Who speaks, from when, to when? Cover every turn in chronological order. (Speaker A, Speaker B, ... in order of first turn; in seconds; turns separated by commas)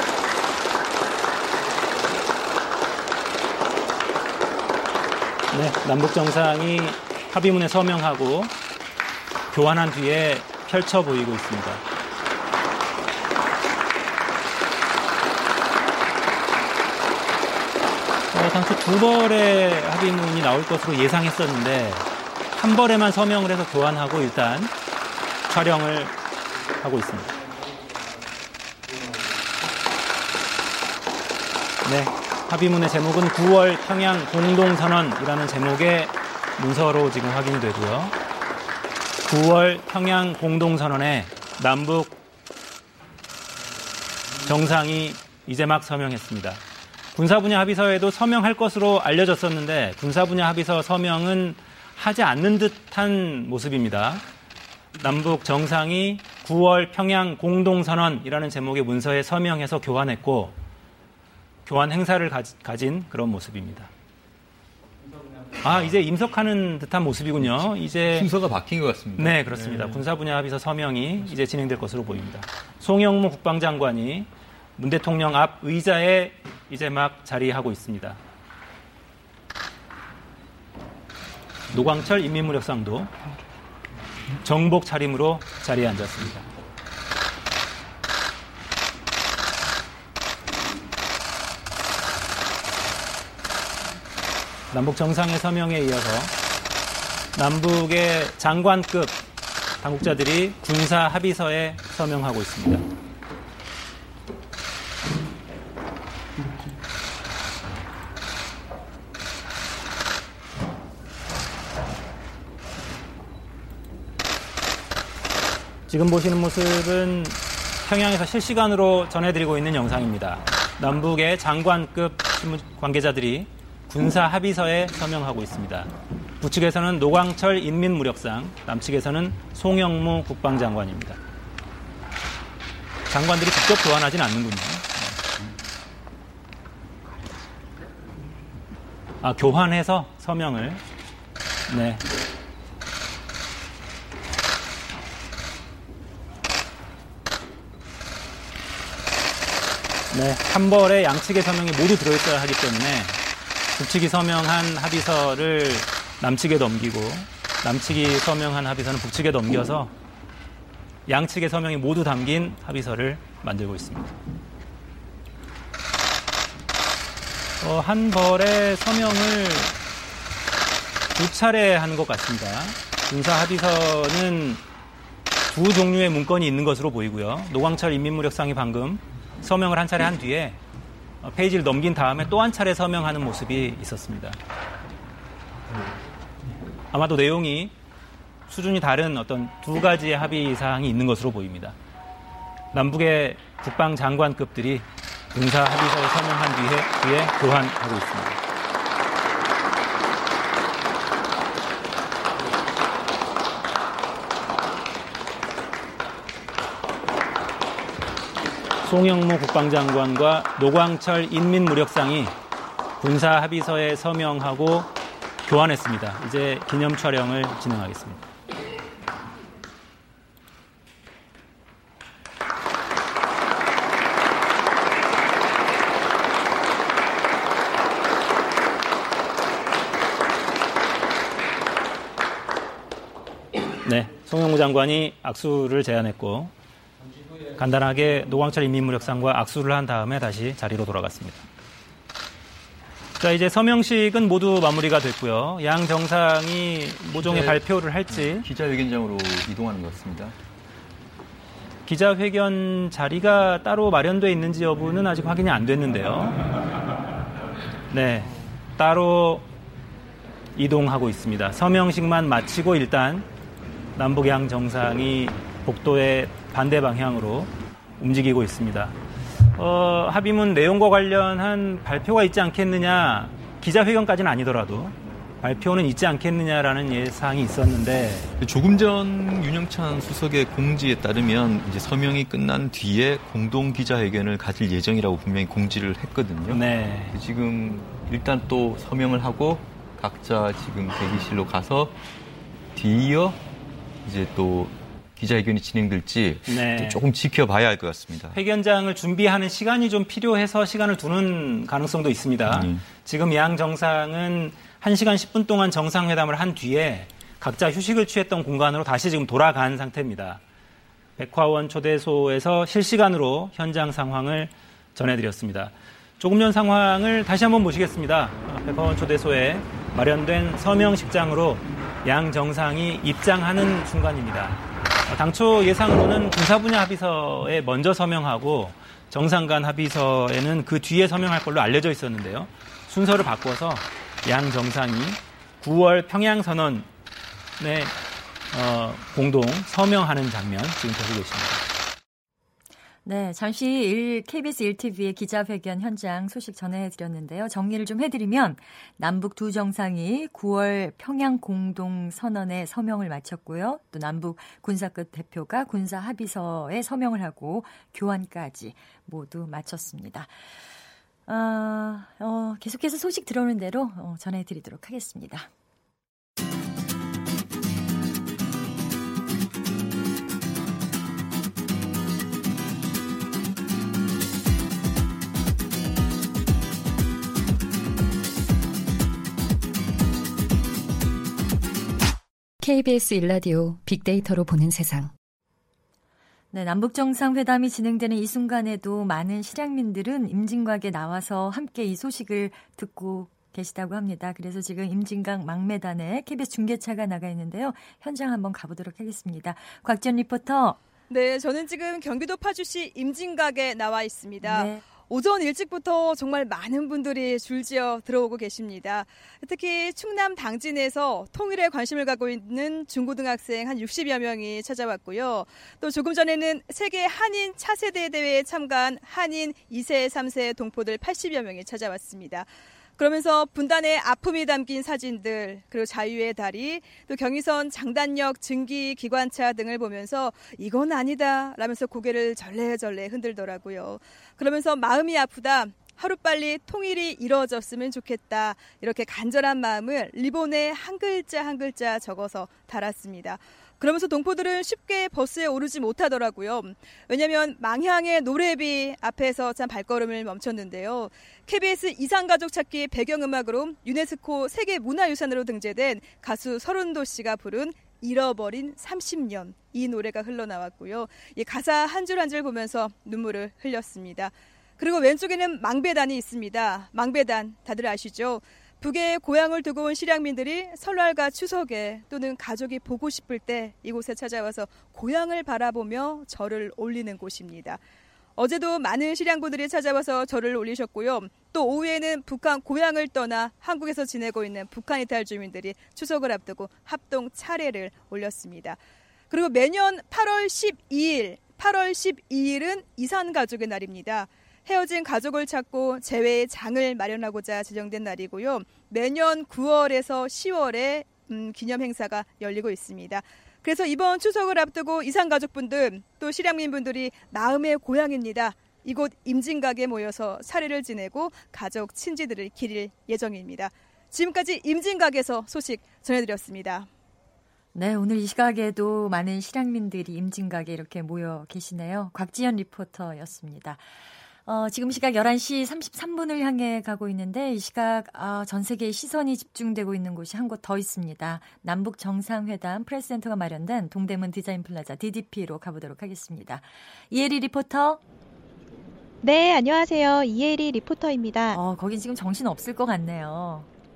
Speaker A: 5.5-8.5, Speaker A: 9.5-11.8, Speaker A: 18.3-24.7, Speaker A: 25.5-26.2, Speaker A: 26.8-27.3, Speaker A: 31.8-38.1, Speaker A: 39.2-42.2, Speaker A: 44.4-46.6, Speaker A: 47.1-54.2, Speaker A: 55.0-60.6, Speaker A: 61.7-63.9, Speaker A: 65.6-68.3, Speaker B: 68.1-70.0, Speaker A: 69.2-78.2, Speaker A: 81.7-83.1, Speaker A: 84.4-86.5, Speaker A: 94.7-96.3, Speaker A: 97.4-99.2, Speaker A: 99.8-102.8, Speaker A: 115.9-131.2, Speaker A: 133.1-135.3, Speaker A: 139.2-140.8, Speaker A: 141.7-142.0, Speaker A: 150.1-153.2, Speaker A: 153.7-159.9, Speaker A: 161.1-164.1, Speaker A: 167.6-169.8, Speaker A: 171.1-174.6, Speaker A: 175.5-180.6, Speaker A: 181.2-184.4, Speaker A: 186.9-187.7, Speaker A: 188.5-191.8, Speaker A: 192.7-198.4, Speaker A: 208.8-212.4, Speaker A: 213.0-214.9, Speaker A: 215.5-218.3, Speaker A: 233.8-236.5, Speaker A: 237.6-241.4, Speaker A: 243.2-248.5, Speaker B: 247.1-250.3, Speaker A: 251.9-256.4, Speaker A: 257.9-259.5, Speaker A: 260.6-263.3, Speaker A: 263.9-269.0, Speaker A: 269.5-278.3, Speaker B: 278.4-292.0, Speaker A: 286.5-287.2, Speaker B: 292.7-293.4, Speaker B: 294.0-298.4, Speaker A: 296.5-297.0, Speaker A: 298.3-310.4, Speaker B: 302.5-302.9, Speaker A: 311.2-336.9, Speaker A: 337.6-338.0, Speaker A: 338.5-341.6, Speaker C: 343.1-360.3, Speaker C: 361.3-365.5, Speaker D: 382.6-385.1, Speaker C: 386.5-400.8, Speaker E: 401.1-477.8, Speaker C: 404.4-404.8, Speaker E: 478.4-488.8, Speaker E: 489.3-516.9, Speaker C: 517.7-523.8, Speaker C: 524.5-538.0, Speaker F: 539.2-541.6, Speaker C: 541.5-543.7